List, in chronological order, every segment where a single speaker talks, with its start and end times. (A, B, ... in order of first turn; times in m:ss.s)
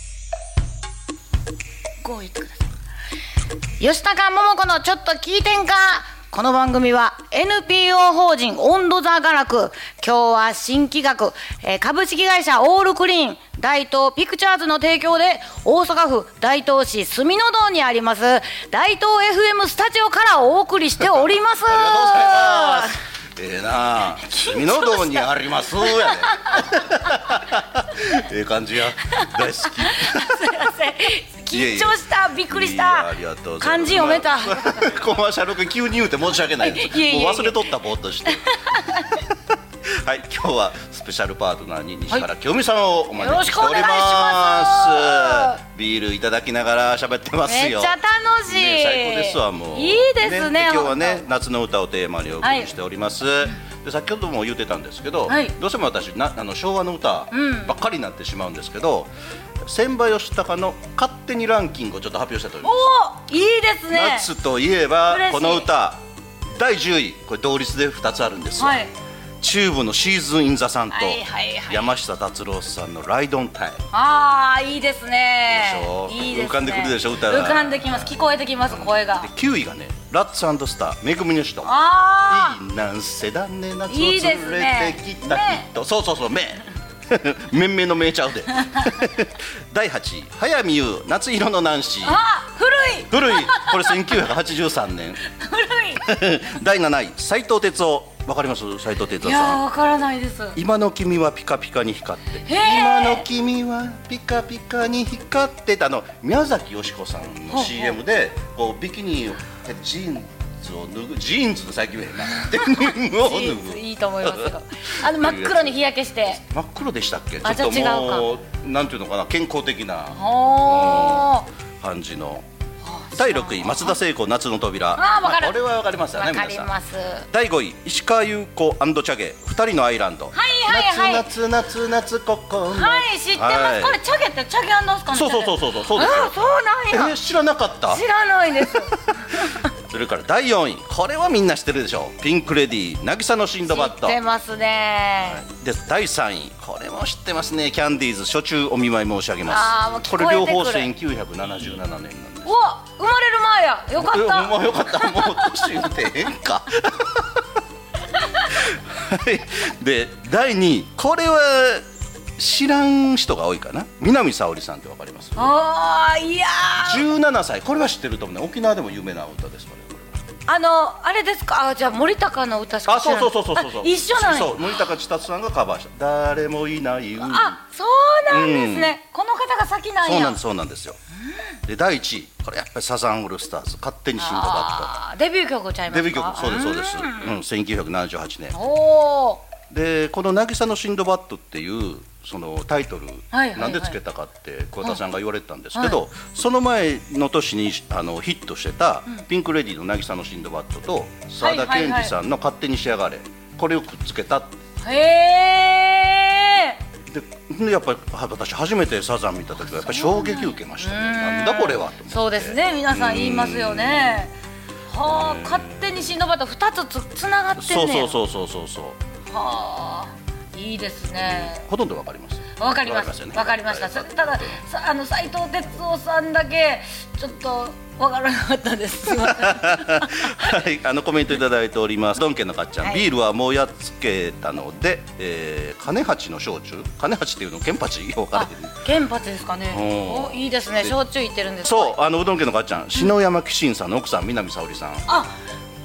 0:02.0-0:02.7 A
0:03.8-0:22.9 A
0:21.7-0:30.6 B
0:24.2-0:26.7 A
0:29.1-0:34.9 A
0:31.5-0:38.5 B
0:36.6-0:37.6 A
0:38.5-0:39.2 A
0:39.9-0:48.0 B
0:43.2-0:45.6 A
0:47.4-0:51.2 A
0:48.5-1:02.9 B
0:52.4-0:52.7 A
0:55.3-0:55.5 A
0:57.3-0:57.7 A
1:02.6-1:04.3 A
1:03.9-1:08.8 B
1:05.1-1:05.7 A
1:08.6-1:08.9 A
1:09.4-1:13.8 B
1:10.9-1:11.9 A
1:13.9-1:19.3 A
1:15.5-1:18.1 B
1:18.7-1:32.2 B
1:21.6-1:22.6 A
1:23.9-1:25.6 A
1:32.0-1:34.1 A
1:33.1-1:35.2 B
1:35.3-1:36.0 A
1:36.0-1:39.6 B
1:39.2-1:40.6 A
1:40.5-1:55.8 B
1:42.4-1:43.2 A
1:47.5-1:47.9 A
1:52.6-1:56.4 A
1:56.3-2:02.4 B
1:57.4-1:58.2 A
2:00.1-2:01.5 A
2:02.8-2:04.0 A
2:03.1-2:06.7 B
2:05.0-2:05.6 A
2:06.1-2:07.3 A
2:07.3-2:14.0 B
2:10.3-2:11.3 A
2:12.7-2:17.2 A
2:15.1-2:16.4 B
2:16.9-2:18.0 B
2:17.9-2:19.6 A
2:18.6-2:18.9 B
2:19.7-2:24.2 B
2:23.7-2:25.4 A
2:25.2-2:32.6 B
2:29.5-2:30.9 A
2:32.4-2:35.7 A
2:34.0-2:37.4 B
2:38.5-2:45.5 B
2:45.4-2:47.0 A
2:46.8-2:50.2 B
2:50.5-2:54.6 A
2:52.8-2:57.6 B
2:57.2-3:00.4 A
2:58.3-2:59.0 B
3:00.0-3:01.0 B
3:01.6-3:05.0 B
3:04.2-3:07.3 A
3:05.9-3:08.6 B
3:08.5-3:09.4 A
3:09.7-3:24.6 B
3:13.3-3:13.9 A
3:15.7-3:16.0 A
3:21.4-3:22.1 A
3:24.8-3:26.8 A
3:27.1-3:34.2 B
3:29.7-3:34.3 A
3:34.9-3:38.1 A
3:35.0-3:35.7 B
3:37.6-3:39.0 B
3:39.3-3:41.6 A
3:41.2-3:44.6 B
3:42.6-3:50.6 A
3:49.1-3:58.8 B
3:58.3-4:02.0 A
3:59.7-4:01.0 B
4:01.6-4:05.0 B
4:05.1-4:05.3 A